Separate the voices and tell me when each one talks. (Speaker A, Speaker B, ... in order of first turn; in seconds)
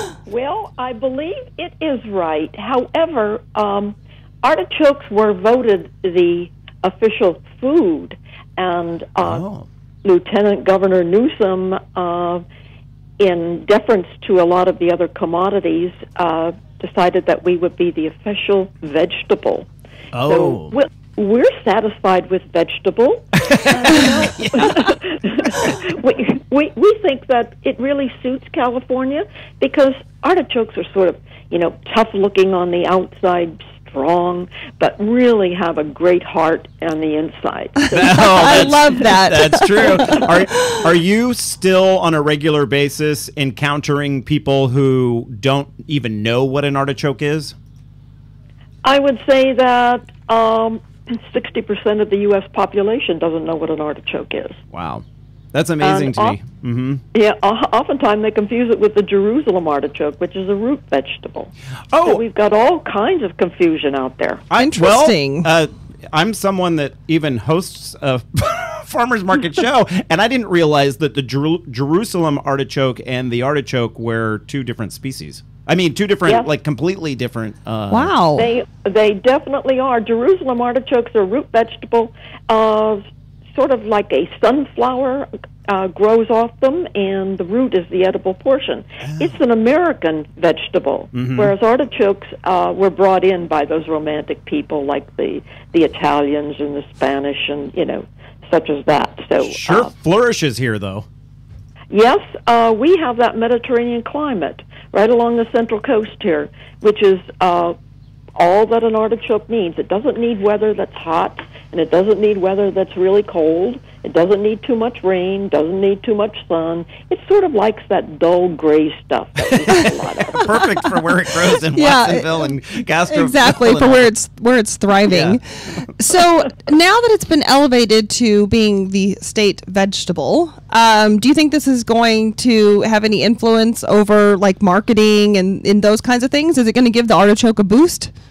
Speaker A: 0.2-9.4, 10.0-12.4, 13.2-19.7, 20.2-38.9, 48.8-54.6, 55.8-56.4, 57.1-64.4, 78.3-99.9, 101.9-107.7, 108.3-120.5
Speaker B: 9.2-9.7, 20.1-20.7, 23.4-24.8, 25.5-25.8, 37.9-47.5, 54.7-57.0, 61.9-62.2, 64.5-78.1, 89.0-89.3, 91.1-91.5, 99.4-101.0, 119.5-124.1, 125.0-125.4
Speaker C: 38.2-40.8, 64.6-65.5, 77.9-78.5, 121.5-122.5, 123.1-138.1